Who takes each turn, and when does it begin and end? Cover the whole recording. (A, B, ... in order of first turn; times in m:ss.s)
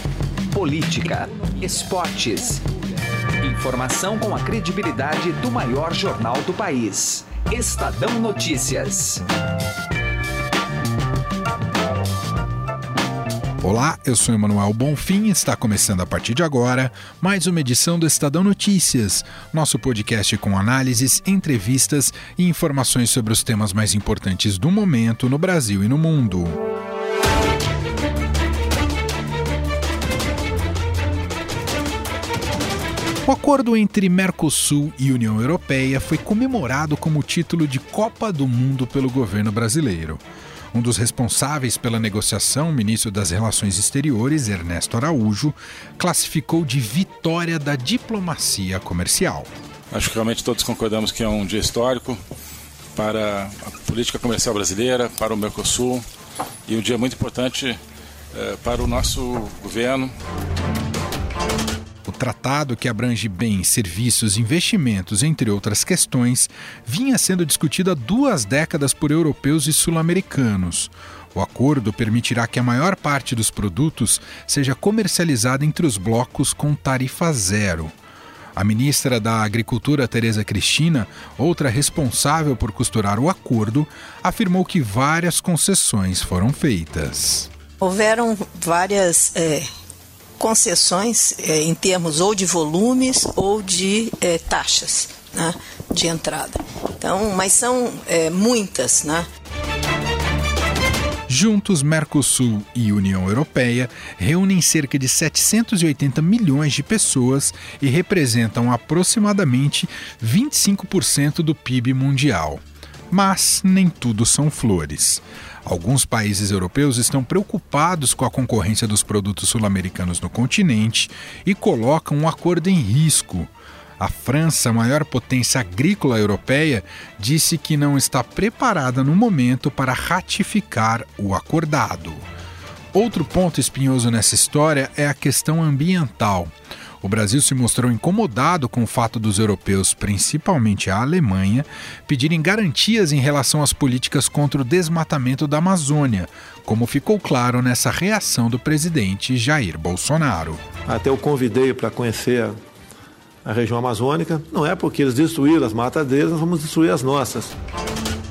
0:00.5-0:02.7 A
0:03.4-0:09.2 A
0:13.6-0:26.6 B
0:33.3-0:40.2 B
0:40.7-0:49.5 B
0:49.9-0:52.2 C
0:53.0-0:56.0 C
0:56.7-0:57.8 C
0:58.3-1:00.1 C
1:02.1-1:17.9 B
1:18.6-1:27.5 B
1:27.8-1:29.7 D
1:30.4-1:39.3 D
1:41.3-2:12.2 B
2:12.9-2:30.6 B
2:30.9-2:32.6 E
2:33.4-2:37.5 E